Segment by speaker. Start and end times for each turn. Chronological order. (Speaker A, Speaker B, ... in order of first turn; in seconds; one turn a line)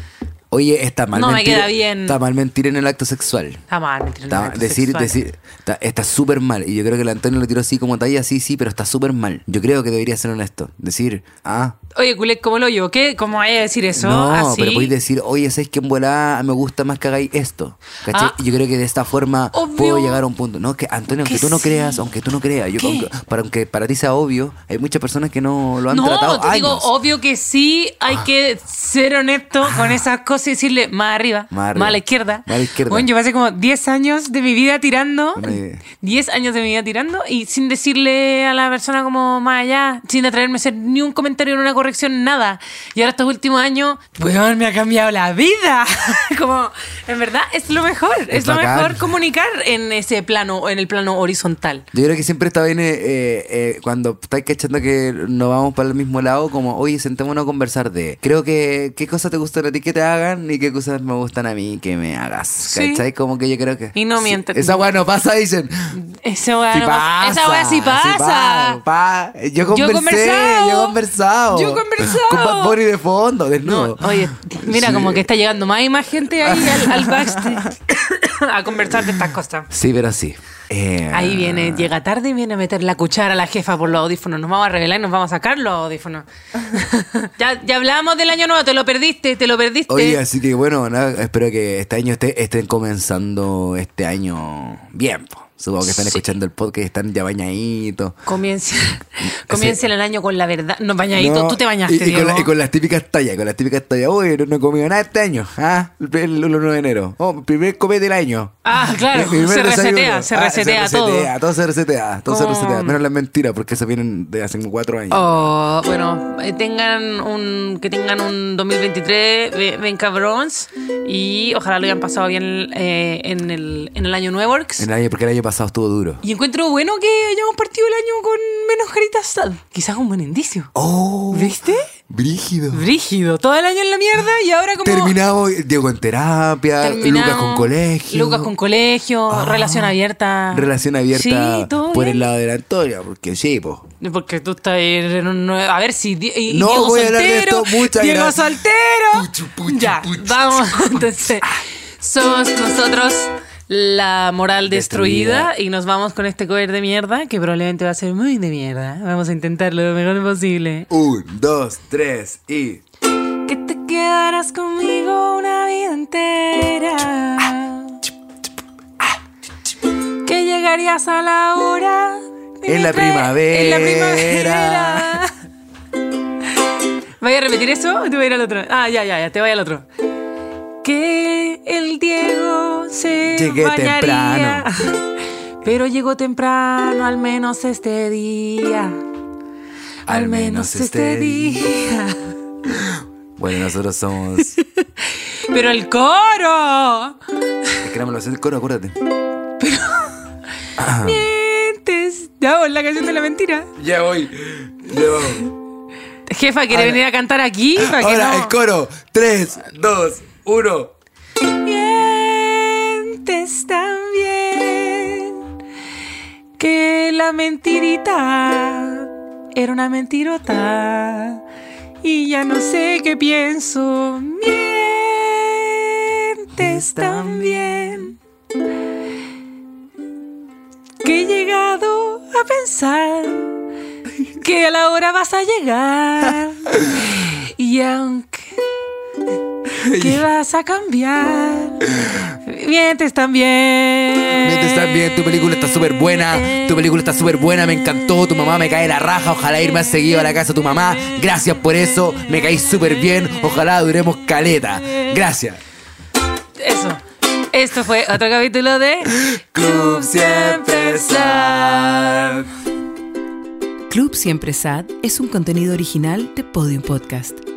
Speaker A: 0.5-3.6
Speaker B: 1.1-2.2
Speaker B: 3.7-5.2
Speaker A: 4.3-11.8
Speaker B: 11.9-14.9
Speaker A: 14.0-26.9
Speaker B: 18.1-18.4
Speaker B: 19.5-20.2
Speaker B: 21.2-22.0
Speaker B: 22.8-23.1
Speaker B: 25.9-51.9
Speaker A: 29.6-30.0
Speaker A: 31.5-33.1
Speaker A: 35.4-35.8
Speaker A: 48.3-49.1
Speaker A: 51.9-66.0
Speaker B: 62.6-63.0
Speaker B: 64.0-64.9
Speaker B: 65.9-68.8
Speaker A: 66.7-75.3
Speaker B: 69.7-72.8
Speaker B: 73.6-79.7
Speaker A: 76.4-77.7
Speaker A: 79.7-81.9
Speaker B: 81.1-90.2
Speaker A: 89.9-98.2
Speaker B: 95.8-96.2
Speaker B: 98.2-102.5
Speaker A: 99.3-99.8
Speaker A: 101.2-115.5
Speaker B: 108.7-111.3
Speaker B: 112.3-113.0
Speaker B: 115.1-124.9
Speaker A: 124.8-126.2
Speaker B: 126.2-130.7
Speaker A: 130.8-132.9
Speaker B: 131.3-131.9
Speaker B: 132.7-135.2
Speaker A: 134.8-138.5
Speaker B: 136.8-142.3
Speaker A: 139.3-140.0
Speaker A: 140.5-143.8
Speaker B: 144.0-151.5
Speaker A: 146.5-151.1
Speaker B: 152.0-160.9
Speaker A: 154.7-155.5
Speaker A: 160.9-162.8
Speaker B: 163.4-168.0
Speaker B: 170.2-175.3
Speaker A: 172.7-175.2
Speaker B: 177.2-179.9
Speaker B: 180.8-189.0
Speaker A: 183.3-184.7
Speaker A: 190.1-191.7
Speaker B: 190.1-192.3
Speaker A: 192.7-194.6
Speaker B: 194.4-197.7
Speaker A: 197.8-199.0
Speaker B: 199.6-200.2
Speaker A: 200.8-201.3
Speaker B: 201.0-203.7
Speaker A: 203.8-205.5
Speaker B: 206.3-208.6
Speaker A: 206.7-207.0
Speaker A: 207.8-210.9
Speaker B: 211.5-215.4
Speaker B: 216.6-221.4
Speaker B: 222.0-228.2
Speaker A: 226.7-227.1
Speaker B: 231.0-233.6
Speaker B: 234.4-238.6
Speaker A: 236.8-237.1
Speaker A: 239.8-240.2
Speaker B: 239.9-245.3
Speaker A: 244.4-255.6
Speaker B: 246.3-246.8
Speaker B: 256.6-262.1
Speaker A: 259.1-262.5
Speaker C: 263.9-267.4